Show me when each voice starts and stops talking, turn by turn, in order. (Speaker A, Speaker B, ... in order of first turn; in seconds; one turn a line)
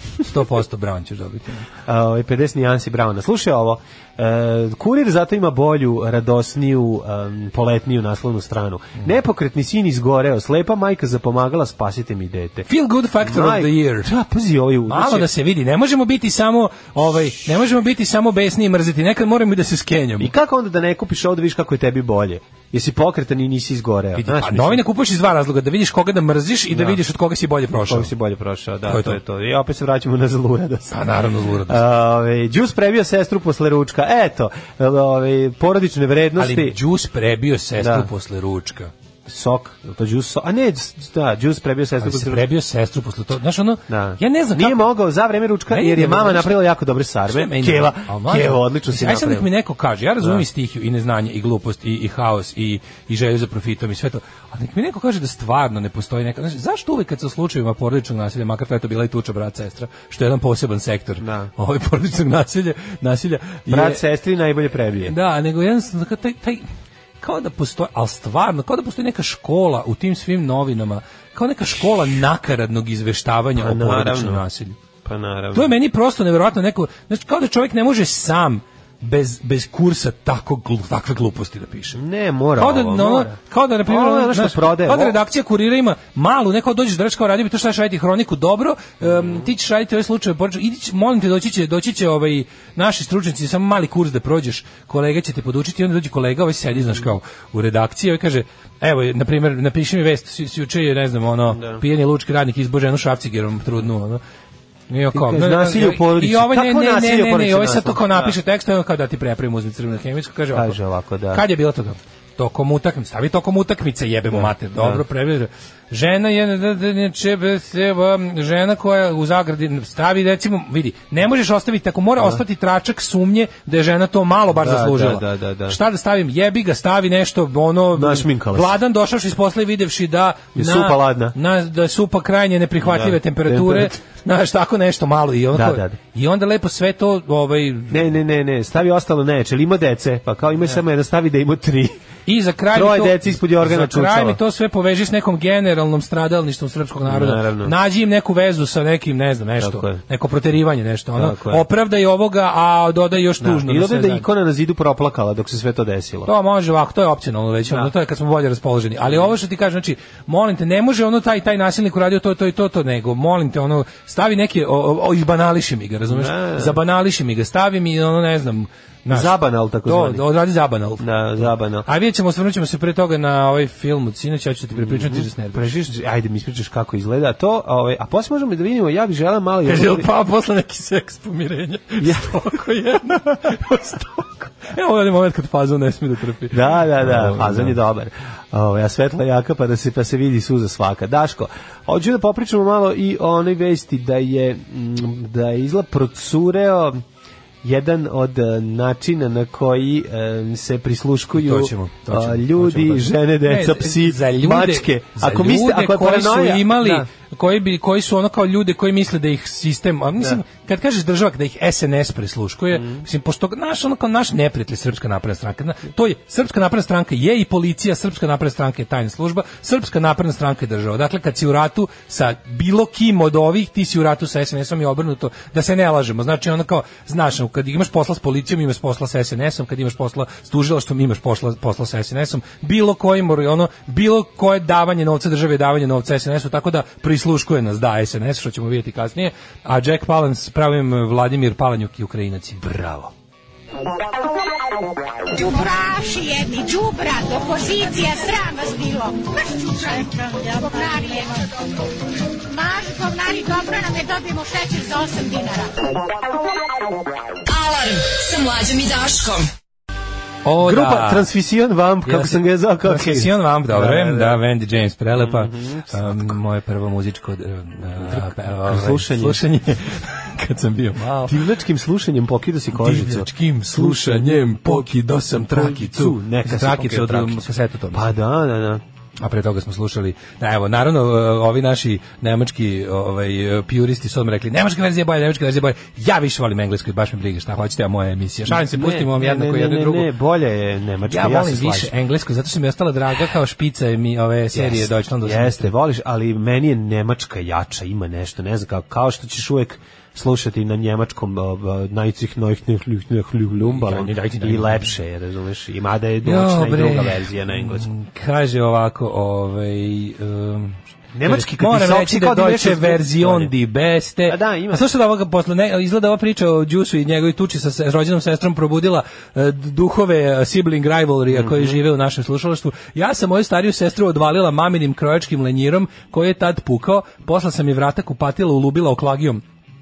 Speaker A: 0.2-1.7
Speaker B: 1.9-12.7
Speaker A: 12.7-14.1
Speaker B: 13.2-15.3
Speaker A: 14.9-20.3
Speaker B: 20.2-24.8
Speaker A: 24.2-28.1
Speaker B: 26.7-27.0
Speaker B: 27.8-31.1
Speaker A: 28.9-29.2
Speaker A: 30.9-31.8
Speaker B: 31.7-36.8
Speaker A: 36.4-38.9
Speaker B: 37.8-38.1
Speaker B: 39.3-42.5
Speaker A: 42.0-44.9
Speaker B: 43.9-49.5
Speaker A: 45.7-46.6
Speaker A: 47.3-64.0
Speaker B: 61.2-61.5
Speaker B: 63.7-65.2
Speaker A: 65.0-66.7
Speaker A: 67.2-74.8
Speaker B: 73.5-74.5
Speaker B: 75.0-75.7
Speaker A: 75.5-82.0
Speaker B: 82.0-85.2
Speaker A: 82.6-104.2
Speaker B: 89.0-89.5
Speaker B: 101.5-101.8
Speaker A: 104.9-110.8
Speaker B: 105.1-108.4
Speaker B: 110.5-111.5
Speaker A: 111.3-138.1
Speaker B: 114.3-115.0
Speaker B: 124.5-125.8
Speaker B: 127.9-128.8
Speaker B: 130.6-131.4
Speaker B: 132.8-134.0
Speaker B: 135.5-136.0
Speaker B: 137.9-142.0
Speaker A: 142.3-154.3
Speaker B: 142.7-144.4
Speaker B: 147.1-147.7
Speaker B: 149.6-150.0
Speaker B: 151.2-151.7
Speaker B: 153.4-156.3
Speaker A: 156.3-175.7
Speaker B: 159.1-159.3
Speaker B: 166.1-166.8
Speaker B: 169.1-170.2
Speaker B: 171.0-171.9
Speaker B: 174.7-180.1
Speaker A: 179.7-187.8
Speaker B: 182.0-182.6
Speaker B: 186.5-197.0
Speaker B: 197.6-207.1
Speaker A: 201.3-242.8
Speaker B: 212.7-213.1
Speaker B: 242.6-243.1
Speaker C: 245.3-251.5
Speaker C: 252.5-255.8
Speaker D: 257.5-259.5
Speaker A: 260.4-261.3
Speaker B: 260.6-264.4
Speaker A: 262.1-271.4
Speaker B: 265.1-266.4
Speaker B: 267.8-269.4
Speaker B: 271.2-278.8
Speaker A: 272.7-278.1
Speaker A: 279.2-290.1
Speaker B: 288.5-291.9
Speaker A: 291.1-295.7
Speaker B: 294.5-307.9
Speaker A: 303.6-304.9
Speaker A: 306.2-329.4
Speaker B: 311.1-313.5
Speaker B: 314.3-314.9
Speaker B: 321.3-321.8